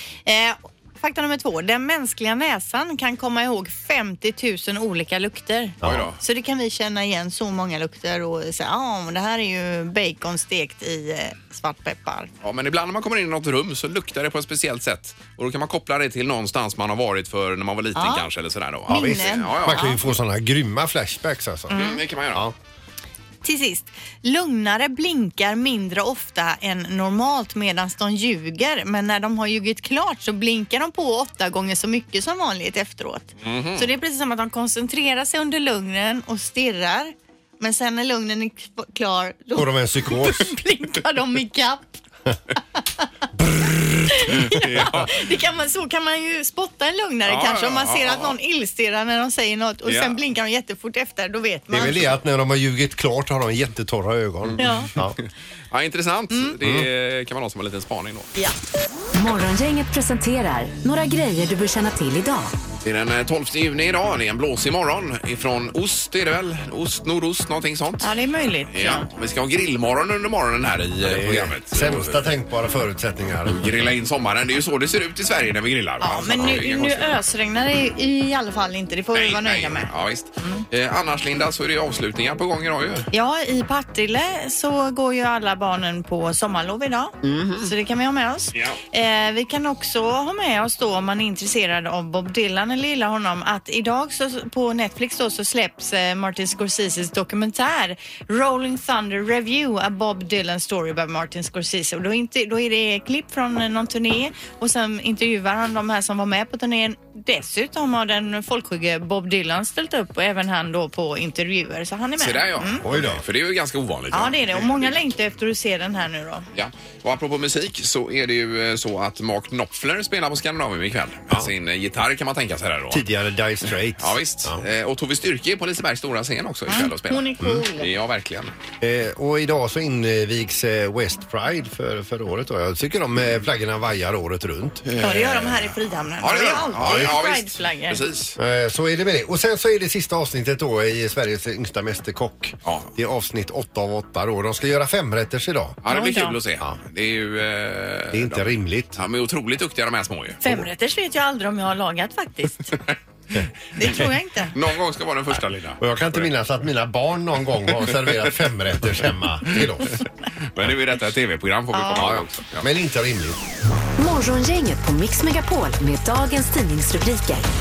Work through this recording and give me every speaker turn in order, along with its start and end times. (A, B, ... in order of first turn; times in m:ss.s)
0:00.3-0:12.3 A
0:05.8-0:06.1 B
0:05.8-0:06.2 C
0:12.4-0:20.0 C
0:18.0-0:18.3 A
0:18.9-0:20.0 A
0:18.9-0:22.6 B
0:21.7-0:22.0 A
0:21.7-0:22.5 C
0:23.4-0:42.0 A
0:33.4-0:33.9 C
0:39.6-0:40.5 B
0:42.8-0:43.1 A
0:43.4-0:45.1 B
0:44.1-0:52.2 A
0:44.3-0:45.1 C
0:47.3-0:48.4 C
0:49.8-0:50.2 C
0:51.7-0:55.2 B
0:54.4-0:58.3 C
0:54.6-0:54.9 A
0:56.6-0:56.9 B
0:59.1-1:02.5 D
1:02.8-1:08.1 C
1:08.0-1:09.1 A
1:08.7-1:12.3 C
1:11.0-1:13.7 B
1:13.5-1:17.2 C
1:16.0-1:19.9 A
1:19.1-1:23.1 C
1:23.1-1:52.8 A
1:27.2-1:27.7 C
1:52.2-1:54.9 C
1:52.8-1:53.2 B
1:54.1-1:56.5 A
1:56.5-2:03.1 C
2:02.9-2:04.6 B
2:04.0-2:08.5 C
2:06.7-2:07.9 A
2:08.8-2:14.9 B
2:14.8-2:15.6 C
2:15.0-2:18.0 A
2:16.2-2:18.4 C
2:16.8-2:17.1 B
2:18.4-2:25.8 B
2:25.8-2:30.4 C
2:25.9-2:26.4 A
2:28.1-2:29.0 B
2:30.4-2:32.8 A
2:33.8-2:34.6 A
2:34.5-2:36.3 C
2:35.8-2:40.0 B
2:40.5-2:42.7 C
2:41.7-2:42.1 A
2:42.0-2:43.4 B
2:44.0-2:47.5 D